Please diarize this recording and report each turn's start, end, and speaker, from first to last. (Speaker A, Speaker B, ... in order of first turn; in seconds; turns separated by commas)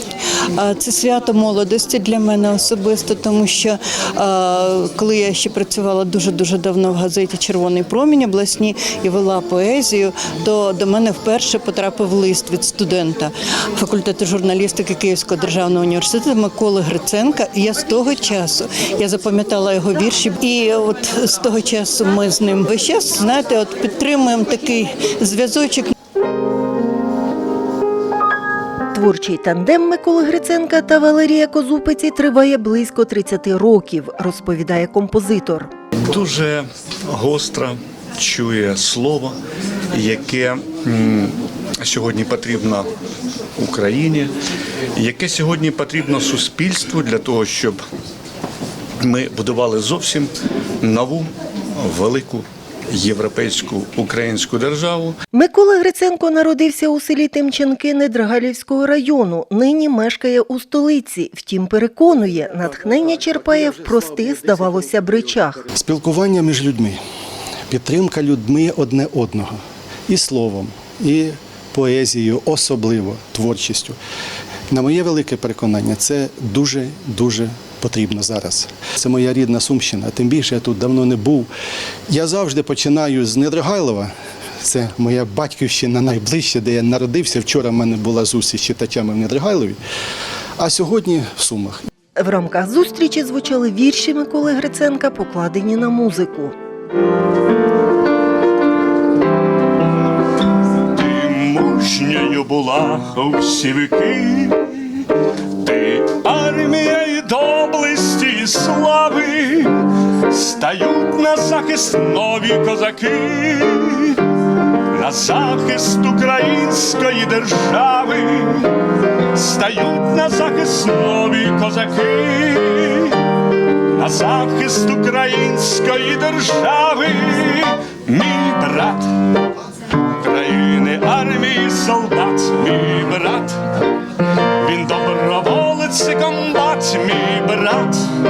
Speaker A: 0.6-25.9, Speaker B: 28.9-35.7, Speaker C: 36.0-39.4, Speaker C: 39.9-42.9, Speaker C: 43.5-44.3, Speaker C: 44.9-47.8, Speaker C: 49.0-55.2, Speaker B: 55.3-65.7, Speaker D: 65.7-67.0, Speaker D: 67.7-74.0, Speaker D: 74.7-81.5, Speaker D: 82.1-89.8, Speaker D: 90.6-91.8, Speaker B: 92.2-96.5, Speaker E: 100.9-104.6, Speaker E: 105.6-109.7, Speaker E: 110.3-114.2, Speaker E: 114.9-118.7, Speaker E: 119.3-123.2, Speaker E: 123.9-129.1, Speaker E: 130.2-133.6, Speaker E: 134.6-138.0